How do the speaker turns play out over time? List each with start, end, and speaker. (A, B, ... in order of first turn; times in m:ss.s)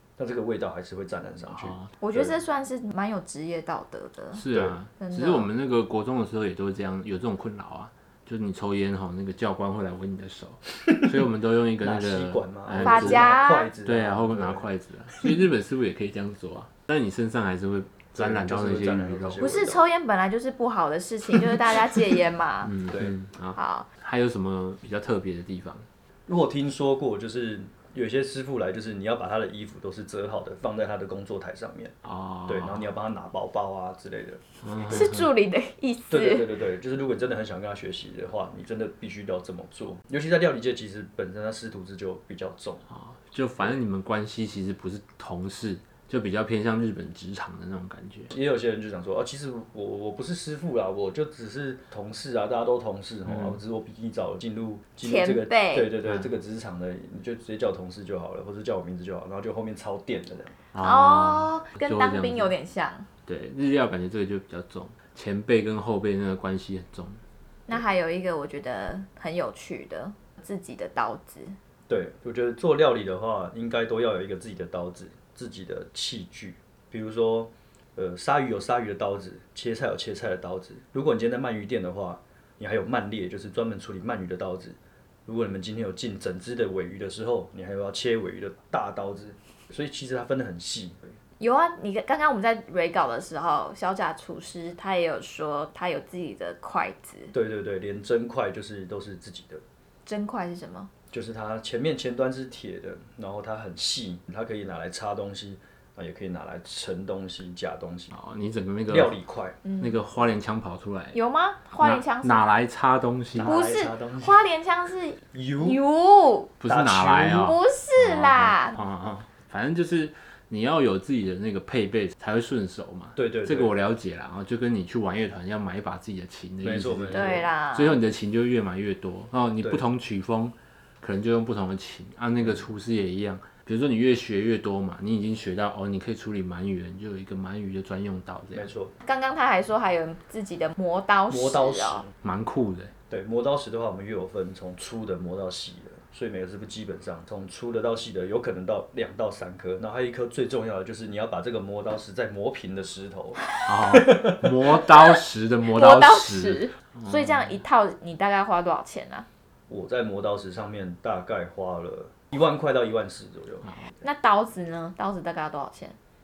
0:00.2-0:02.4 A
0:01.6-0:01.9 B
0:02.0-0:05.5 C
0:04.3-0:19.5 B
0:11.8-0:14.6 A
0:12.8-0:13.7 C
0:18.2-0:19.8 A
0:19.4-0:22.8 C
0:22.6-0:25.8 B
0:23.5-0:23.9 C
0:26.3-0:32.0 A
0:32.0-0:32.9 B
0:32.5-0:35.1 A
0:34.6-0:35.3 B
0:34.9-0:36.5 C
0:36.1-0:42.8 A
0:42.9-0:48.3 B
0:48.3-1:00.6 A
0:53.2-0:53.6 B
0:55.0-0:55.9 C
1:00.7-1:02.5 B
1:00.8-1:03.1 C
1:03.2-1:07.2 B
1:07.7-1:11.6 C
1:11.9-1:31.1 A
1:31.4-1:37.3 C
1:37.3-1:39.6 A
1:40.1-1:40.9 C
1:41.1-1:48.2 A
1:48.1-1:49.1 B
1:48.9-1:49.6 A
1:49.6-1:50.0 C
1:49.8-1:51.2 B
1:51.1-1:52.4 C
1:51.8-1:53.5 B
1:53.3-1:54.4 A
1:53.4-1:56.6 C
1:55.3-1:55.8 A
1:56.6-2:18.7 B
1:56.7-1:57.5 A
1:57.3-1:58.8 C
2:03.2-2:03.8 A
2:06.6-2:07.5 A
2:07.1-2:08.0 C
2:18.5-2:18.9 A
2:19.0-2:22.1 C
2:21.3-2:22.1 A
2:22.2-2:22.9 B
2:23.1-2:34.7 A
2:33.6-2:37.6 B
2:35.7-2:39.3 C
2:39.7-2:43.7 A
2:44.0-2:46.0 C